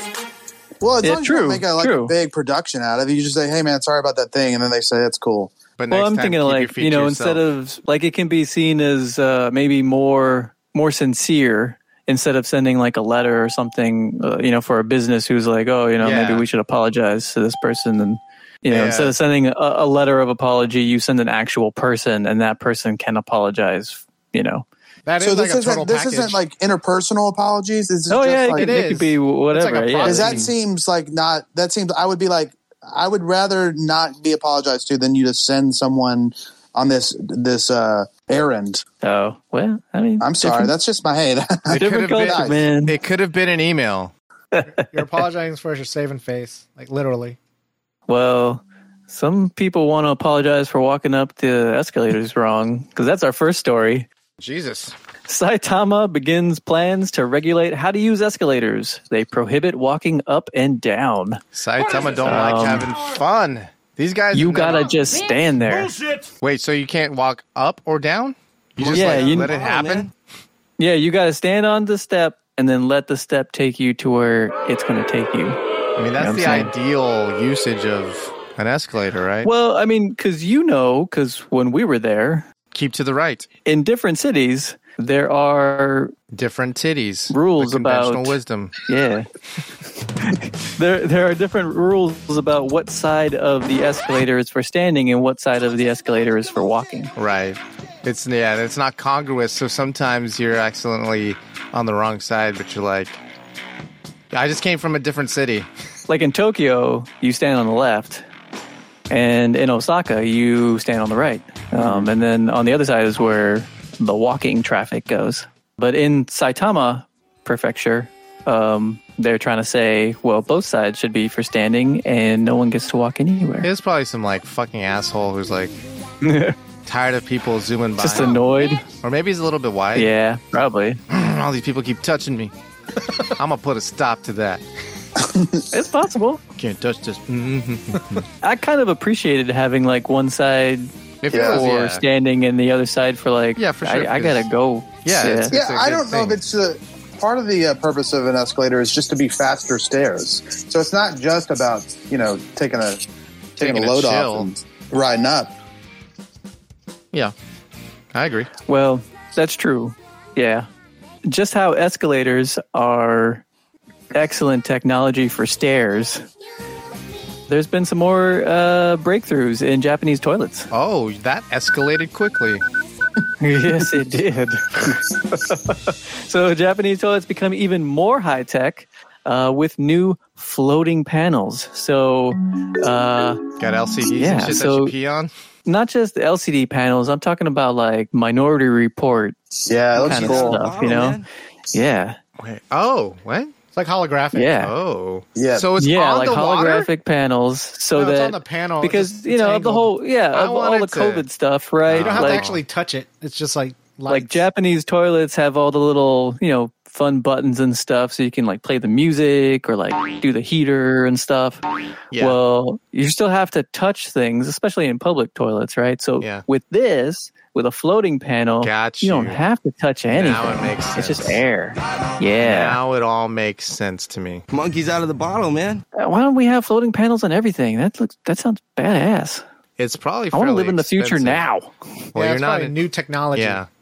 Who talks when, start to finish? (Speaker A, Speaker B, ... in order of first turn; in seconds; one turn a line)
Speaker A: 0.8-5.5
Speaker B: 1.0-2.1
Speaker C: 5.8-7.4
Speaker B: 5.9-24.6
Speaker C: 16.0-16.5
Speaker C: 18.7-19.1
Speaker D: 25.1-26.4
Speaker A: 25.2-28.8
Speaker B: 28.1-30.5
Speaker D: 28.5-30.5
Speaker A: 30.1-38.8
Speaker B: 39.0-40.7
Speaker A: 40.2-42.7
Speaker C: 41.7-44.1
Speaker B: 41.7-43.0
Speaker D: 44.8-47.4
Speaker B: 48.1-54.1
Speaker C: 54.4-55.0
Speaker B: 55.3-61.4
Speaker C: 61.5-64.9
Speaker B: 62.2-62.9
Speaker B: 64.3-66.0
Speaker C: 66.4-70.1
Speaker E: 68.8-70.1
Speaker B: 68.9-69.5
Speaker B: 70.8-75.6
Speaker C: 76.0-79.5
Speaker B: 76.2-76.7
Speaker B: 79.4-82.5
Speaker C: 82.7-83.5
Speaker B: 83.7-86.1
Speaker C: 86.3-88.7
Speaker B: 87.3-89.3
Speaker B: 90.2-97.1
Speaker C: 97.2-103.2
Speaker C: 104.3-105.7
Speaker B: 106.1-108.2
Speaker B: 109.1-123.7
Speaker C: 111.8-112.1
Speaker C: 123.6-125.7
Speaker B: 126.2-126.6
Speaker C: 126.9-128.4
Speaker B: 128.0-128.8
Speaker C: 129.0-130.1
Speaker B: 129.9-131.0
Speaker C: 131.1-132.5
Speaker C: 133.3-134.6
Speaker A: 135.2-135.7
Speaker B: 135.7-136.4
Speaker C: 136.6-138.3
Speaker B: 138.4-145.6
Speaker C: 141.2-142.1
Speaker A: 141.3-141.6
Speaker C: 143.6-144.5
Speaker C: 145.0-146.4
Speaker A: 145.5-153.1
Speaker A: 153.6-155.5
Speaker C: 153.6-154.5
Speaker C: 158.1-158.5
Speaker B: 158.7-160.7
Speaker B: 161.2-163.4
Speaker B: 164.1-166.3
Speaker B: 167.5-170.7
Speaker C: 170.7-172.6
Speaker B: 173.4-183.4
Speaker C: 183.6-185.3
Speaker B: 184.2-184.9
Speaker B: 185.7-189.4
Speaker A: 189.7-190.6
Speaker B: 189.9-192.2
Speaker E: 190.0-191.3
Speaker C: 192.4-193.5
Speaker D: 193.7-194.5
Speaker B: 194.3-194.7
Speaker C: 194.6-196.9
Speaker A: 195.4-195.7
Speaker B: 195.8-202.5
Speaker D: 197.9-199.9
Speaker C: 200.3-201.3
Speaker C: 201.9-202.6
Speaker D: 201.9-204.4
Speaker B: 204.1-211.6
Speaker C: 212.1-212.4
Speaker B: 212.2-222.8
Speaker C: 218.6-219.4
Speaker C: 220.1-221.4
Speaker C: 222.4-224.4
Speaker E: 224.5-225.8
Speaker B: 225.9-229.4
Speaker C: 229.8-231.4
Speaker B: 230.3-231.7
Speaker C: 232.1-232.8
Speaker D: 232.2-233.6
Speaker C: 233.3-233.7